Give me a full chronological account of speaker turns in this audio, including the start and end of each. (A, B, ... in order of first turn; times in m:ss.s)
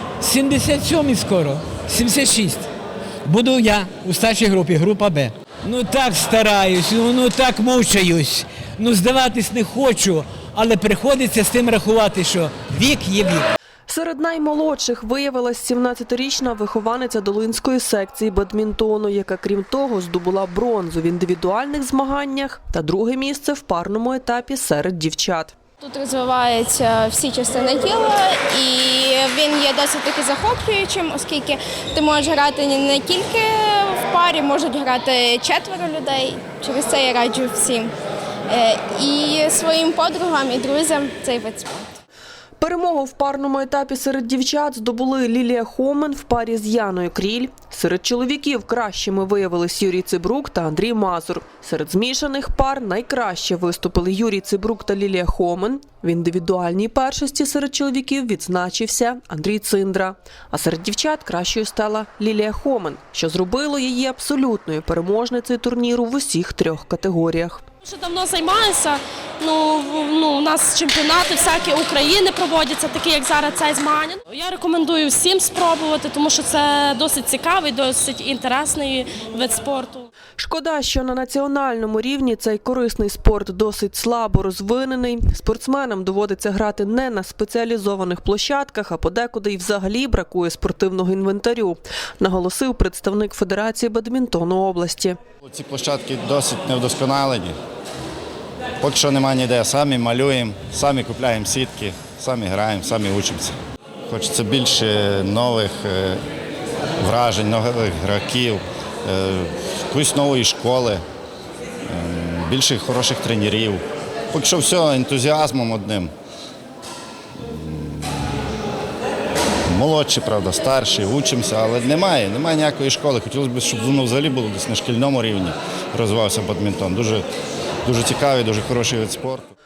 0:00.2-0:02.7 A
0:03.2-0:13.5 A
0:13.9-0:25.5 B
0:25.8-0:37.9 C
0:38.5-0:41.9 C
0:42.6-1:07.6 B
1:07.8-1:20.1 D
1:20.4-1:35.2 B
1:35.4-1:37.6 E
1:38.8-1:43.6 E
1:44.1-1:46.2 E
1:47.0-1:51.0 E
1:51.9-1:56.1 E
1:57.4-1:58.3 E
1:59.7-2:07.3 E
2:07.8-2:09.5 E